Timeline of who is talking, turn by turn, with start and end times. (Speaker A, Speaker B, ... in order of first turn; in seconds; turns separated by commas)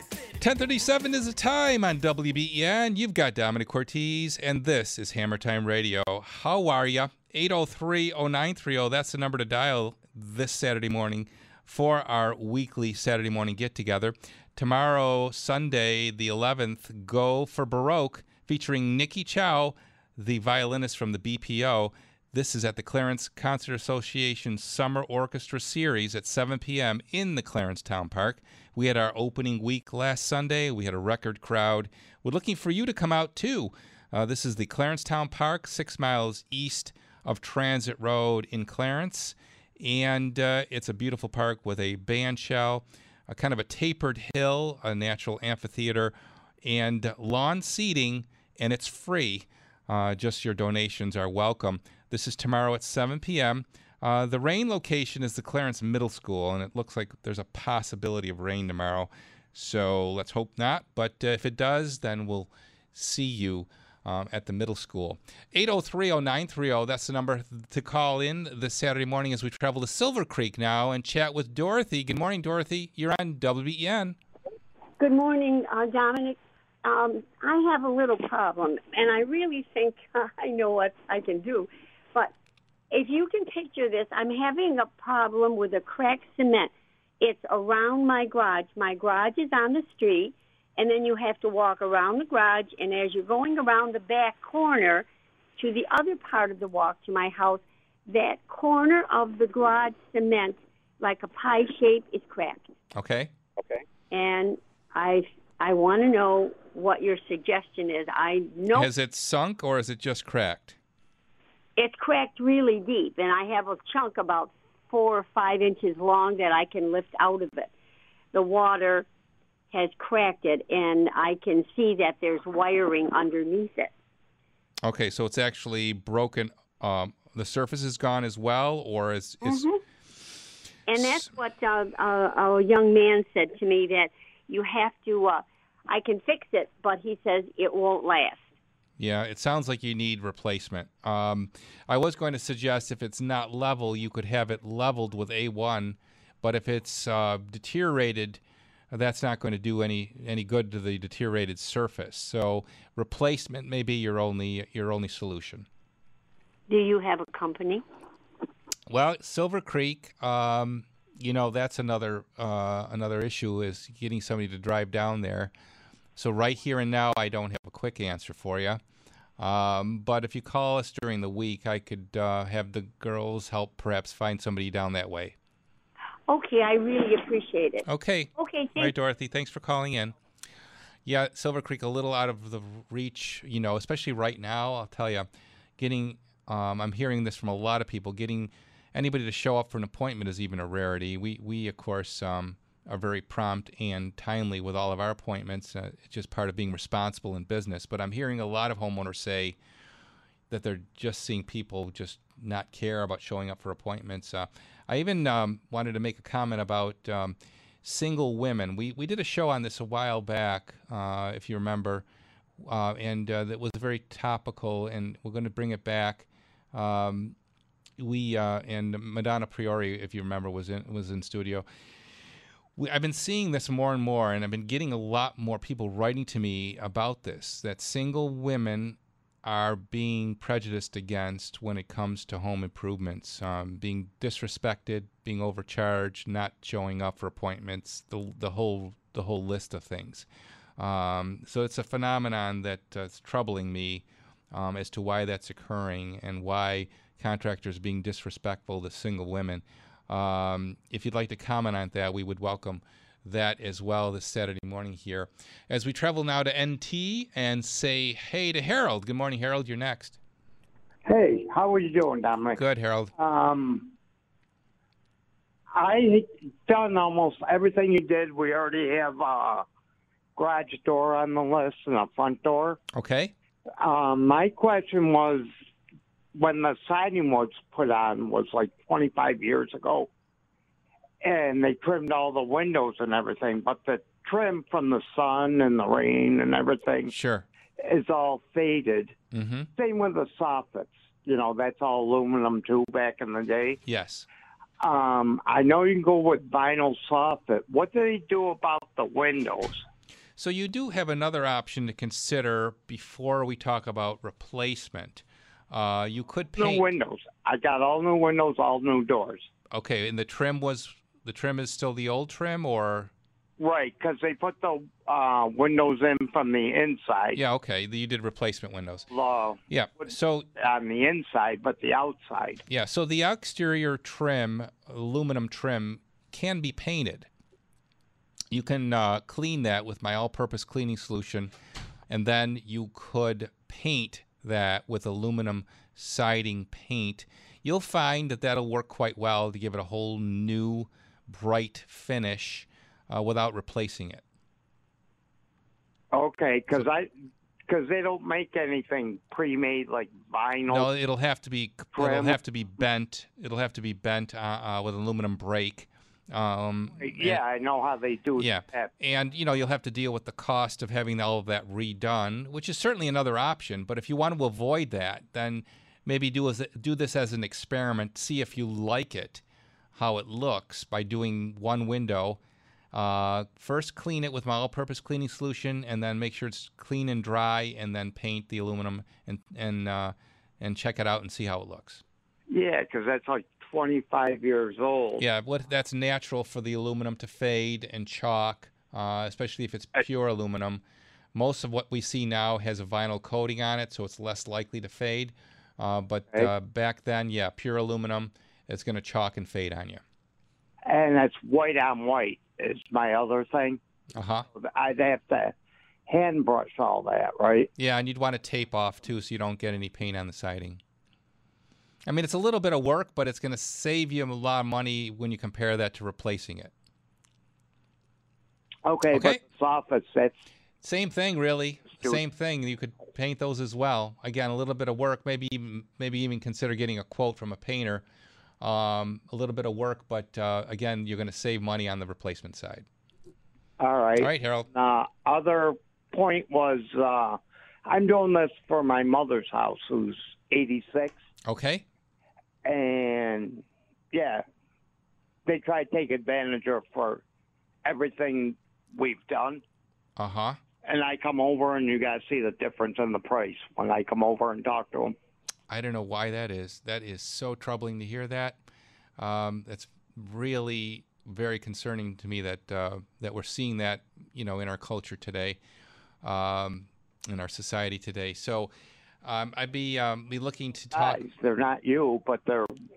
Speaker A: 0.4-74.2, Speaker B: 75.0-82.3, Speaker B: 82.9-95.1, Speaker B: 95.6-102.7, Speaker A: 103.0-103.3, Speaker B: 104.1-108.9, Speaker A: 108.7-110.8, Speaker B: 111.8-117.7, Speaker B: 118.3-119.1, Speaker B: 119.7-123.9, Speaker A: 124.8-129.7, Speaker B: 129.4-129.8, Speaker B: 130.9-138.4, Speaker A: 131.0-131.3, Speaker A: 139.0-148.4, Speaker A: 148.9-155.7, Speaker B: 156.7-157.8, Speaker A: 158.9-165.5, Speaker A: 166.2-168.8, Speaker A: 169.4-175.3, Speaker B: 176.3-178.9, Speaker A: 177.8-180.1, Speaker A: 181.1-199.6, Speaker A: 200.5-212.1, Speaker A: 212.6-217.3, Speaker A: 218.0-221.7, Speaker A: 222.8-260.2, Speaker C: 261.1-262.6, Speaker A: 262.6-263.1, Speaker C: 263.2-263.9, Speaker C: 265.8-269.6, Speaker C: 270.4-272.8, Speaker A: 272.9-273.3, Speaker C: 273.8-275.5, Speaker C: 276.4-280.1, Speaker C: 281.2-287.1, Speaker A: 287.1-287.5, Speaker C: 287.8-289.2, Speaker A: 289.3-289.7, Speaker C: 289.8-293.8, Speaker A: 293.9-294.3, Speaker C: 294.8-299.8, Speaker A: 300.4-306.9, Speaker C: 306.6-309.5, Speaker A: 309.7-313.1, Speaker C: 313.6-317.4, Speaker A: 317.3-319.1, Speaker C: 319.1-322.6, Speaker A: 319.7-320.5, Speaker A: 322.7-327.3, Speaker A: 328.5-331.5, Speaker A: 332.1-344.2, Speaker C: 346.1-347.1, Speaker C: 347.7-350.9, Speaker A: 350.7-357.4, Speaker C: 351.9-352.4, Speaker C: 357.0-358.9, Speaker A: 358.4-369.4, Speaker A: 369.9-372.4, Speaker A: 372.9-382.0, Speaker C: 382.5-385.2, Speaker A: 385.2-390.8, Speaker A: 391.4-400.0, Speaker C: 400.9-403.8, Speaker A: 404.1-404.4, Speaker C: 404.5-405.6, Speaker C: 406.1-407.7, Speaker A: 407.8-410.8, Speaker A: 412.1-416.7, Speaker C: 418.9-420.4, Speaker A: 419.1-419.4, Speaker A: 420.8-428.0, Speaker A: 428.6-432.9, Speaker C: 433.8-441.2, Speaker A: 434.1-434.7, Speaker A: 441.4-441.8, Speaker C: 442.6-444.4, Speaker C: 445.5-447.2, Speaker C: 447.9-449.6, Speaker A: 450.2-450.6, Speaker C: 450.8-455.1, Speaker A: 455.7-458.6, Speaker A: 459.2-465.6, Speaker A: 466.2-468.7, Speaker A: 469.2-471.2, Speaker C: 470.9-472.7